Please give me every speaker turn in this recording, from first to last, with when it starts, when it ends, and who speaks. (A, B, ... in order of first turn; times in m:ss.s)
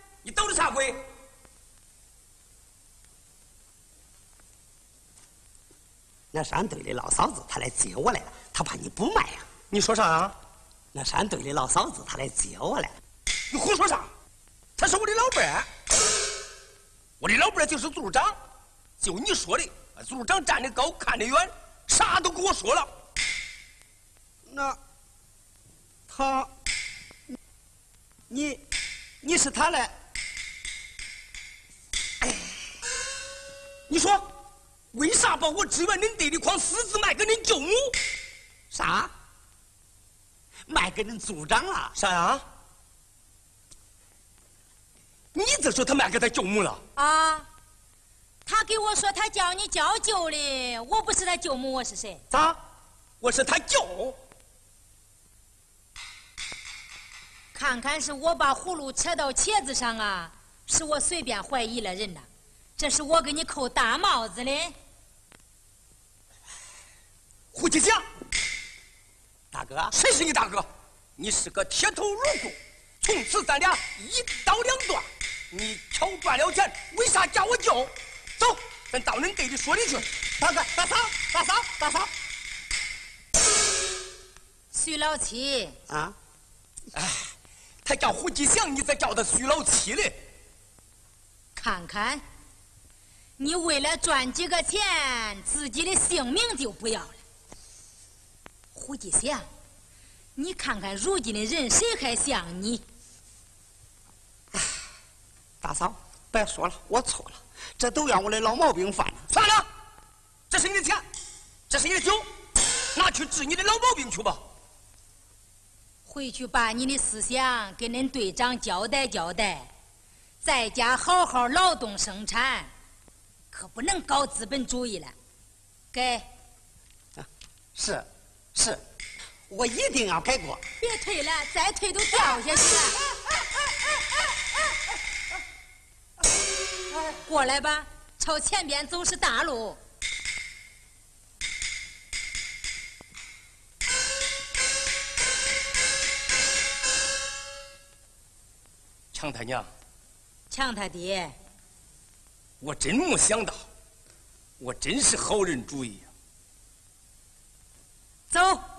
0:00.2-0:01.0 A
0:06.3-0:09.6 B
0:09.7-0:10.4 A
0:10.9-0:13.0 B
0:13.5-0:14.1 A
0:14.8-0:15.7 A
0:17.2-0:18.4 A
0:19.0-0:22.9 A
0:24.5-0:24.8 B
0:26.1-0:26.5 B
0:28.3-0:28.6 B
0:29.2-0:29.9 B
0:33.9-0:34.3 A
0:34.9-0:38.0 A
0:38.7-0:39.1 B
0:40.7-0:41.9 B
0:42.0-0:42.4 A
0:45.4-0:46.8 A
0:47.0-0:47.5 C
0:48.4-0:52.2 C
0:52.3-0:52.6 A
0:53.2-0:54.2 A
0:57.5-1:04.8 C
1:07.5-1:08.0 A
1:09.5-1:09.9 B
1:09.9-1:20.1 A
1:20.4-1:22.1 B
1:24.7-1:25.8 C
1:25.9-1:26.2 B
1:26.9-1:27.3 A
1:27.8-1:30.2 A
1:31.6-1:32.2 C
1:33.4-1:37.2 C
1:38.7-1:39.5 C
1:40.4-1:42.8 C
1:45.6-1:49.3 B
1:49.3-1:49.7 A
1:50.5-1:51.0 A
1:51.7-1:52.3 A
1:52.9-1:54.4 A
1:56.1-1:59.7 C
2:00.4-2:02.7 C
2:03.5-2:05.2 C
2:05.9-2:06.3 C
2:07.2-2:08.8 B
2:09.5-2:10.6 B
2:10.8-2:13.0 C
2:16.9-2:19.8 C
2:29.1-2:29.7 A
2:30.5-2:31.4 C
2:32.6-2:33.6 A
2:34.6-2:36.1 A
2:38.3-2:38.6 C